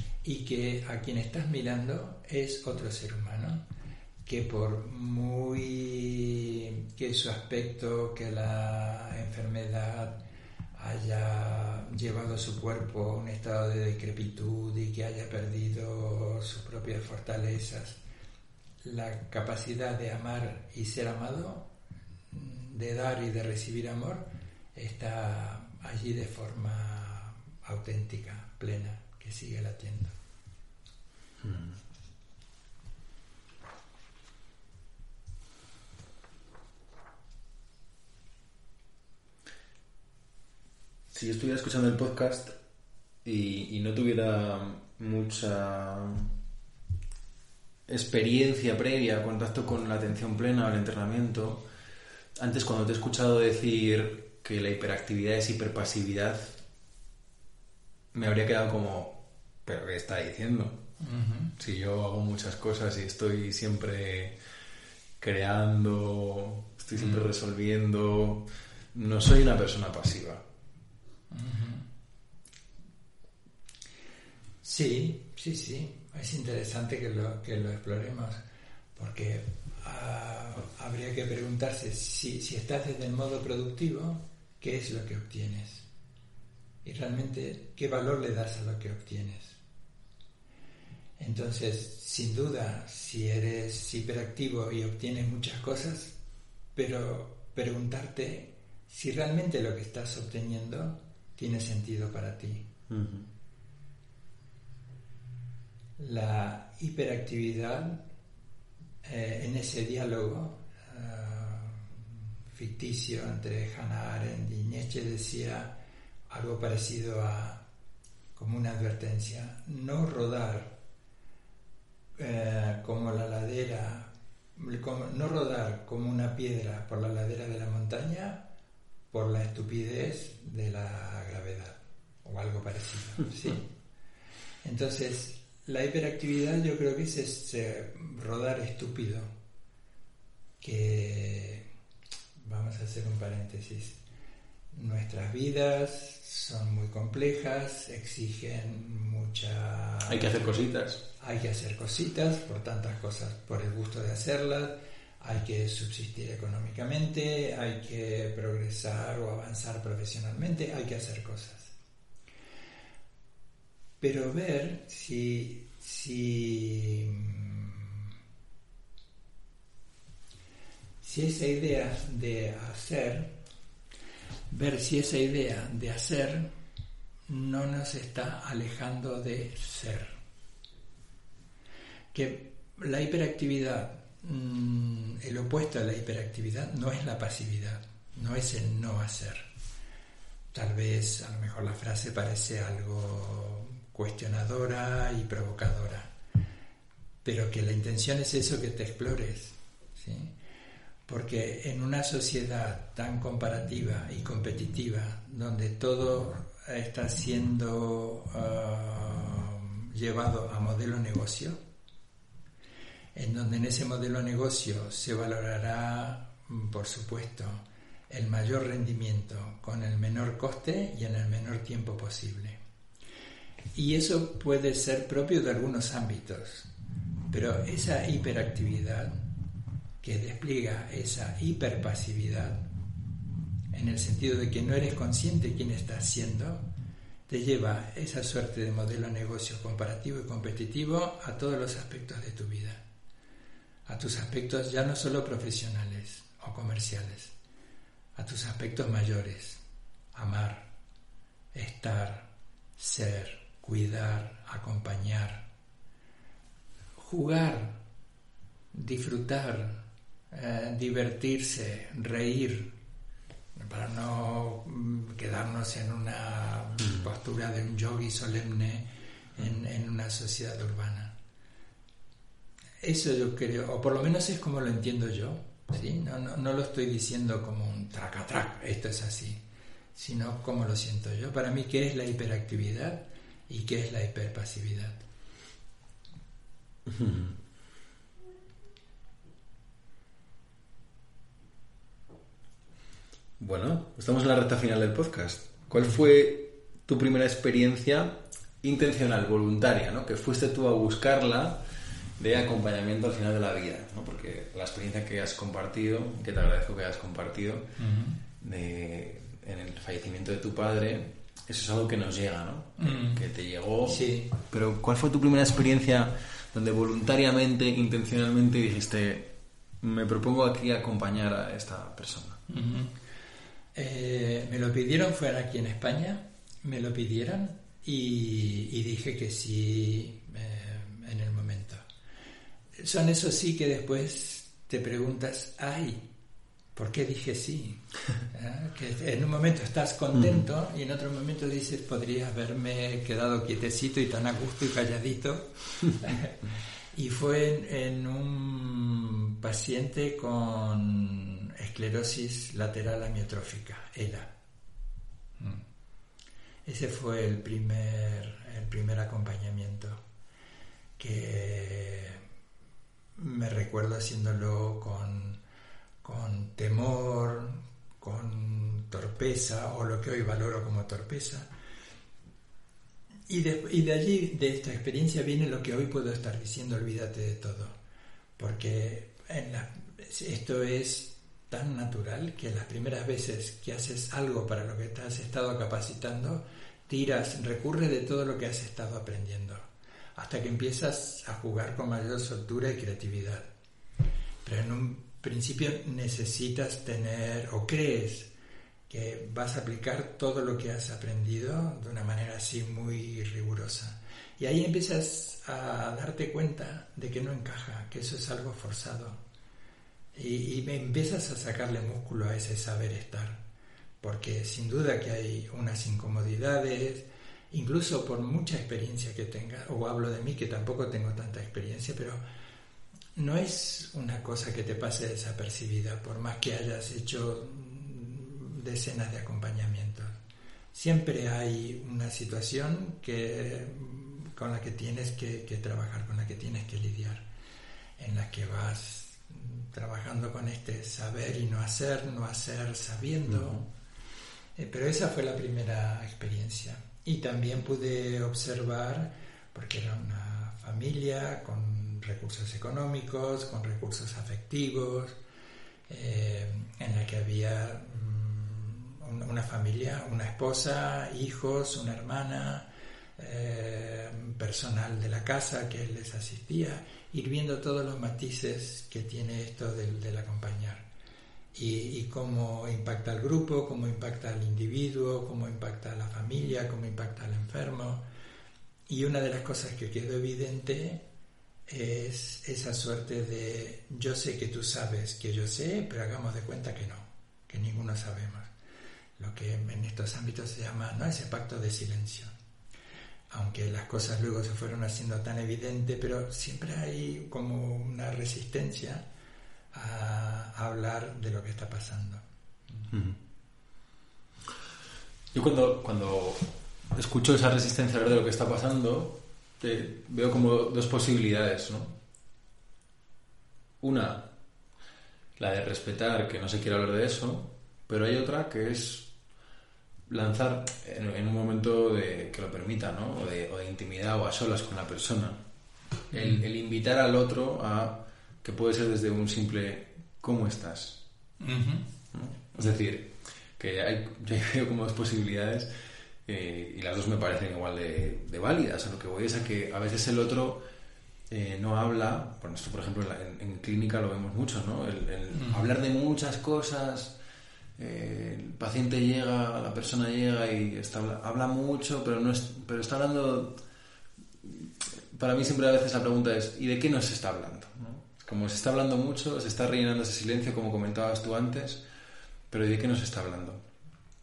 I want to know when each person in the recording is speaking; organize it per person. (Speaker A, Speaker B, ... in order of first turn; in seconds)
Speaker A: 0.2-3.6, 4.2-10.2, 10.7-18.0, 18.8-21.7, 22.3-30.1, 61.0-61.5, 66.9-67.2, 71.3-71.8, 74.6-78.4, 79.0-85.8, 86.8-89.6, 91.2-96.1, 96.7-102.6, 106.0-108.0, 109.0-115.7, 116.3-117.6, 118.3-120.7, 122.2-128.4, 129.1-133.7, 134.6-139.3, 140.6-141.7, 142.4-144.0, 144.7-150.4, 151.2-161.7, 164.0-168.1, 171.0-173.3, 174.5-176.5, 177.3-180.2, 182.1-189.5, 190.5-196.1, 197.2-200.3, 201.1-211.6, 213.1-222.6, 223.7-226.7, 227.3-229.2, 230.0-232.6, 233.7-236.6, 237.3-242.8, 243.9-247.3, 248.2-249.6, 250.1-250.7, 251.5-255.4, 257.0-257.8, 258.7-262.7, 263.5-271.1, 272.8-279.4, 279.9-285.0, 307.8-308.2, 312.8-313.2, 313.8-314.3, 322.5-322.9, 323.7-331.8, 332.8-336.0, 336.7-346.4, 346.9-354.3, 356.6-360.0, 361.0-362.2, 363.2-365.4, 366.0-371.5, 373.3-377.7, 378.4-393.5, 394.4-398.3, 398.9-409.2, 410.1-413.4, 414.0-422.2, 423.1-430.2, 430.7-437.2, 438.0-443.6, 444.6-455.2, 455.9-462.6, 463.2-470.9, 471.5-478.0, 478.9-481.0, 481.7-488.5, 489.2-492.3, 493.3-499.0, 499.7-502.2, 526.1-526.4, 531.4-531.9, 545.3-545.7
Speaker B: 31.4-31.8, 41.1-42.5, 43.2-46.3, 47.9-51.6, 52.4-56.6, 58.1-60.8, 61.6-64.3, 65.2-70.4, 102.9-103.2, 150.1-151.0, 286.9-287.4, 293.4-301.6, 302.2-307.7, 308.4-322.4, 340.1-340.4, 443.3-443.6, 502.9-503.2, 505.3-512.0, 513.8-514.3, 515.4-519.1, 520.1-525.4, 526.1-531.0, 532.1-535.7, 536.2-540.6, 541.3-547.1, 547.8-553.6, 554.4-561.8, 562.5-563.6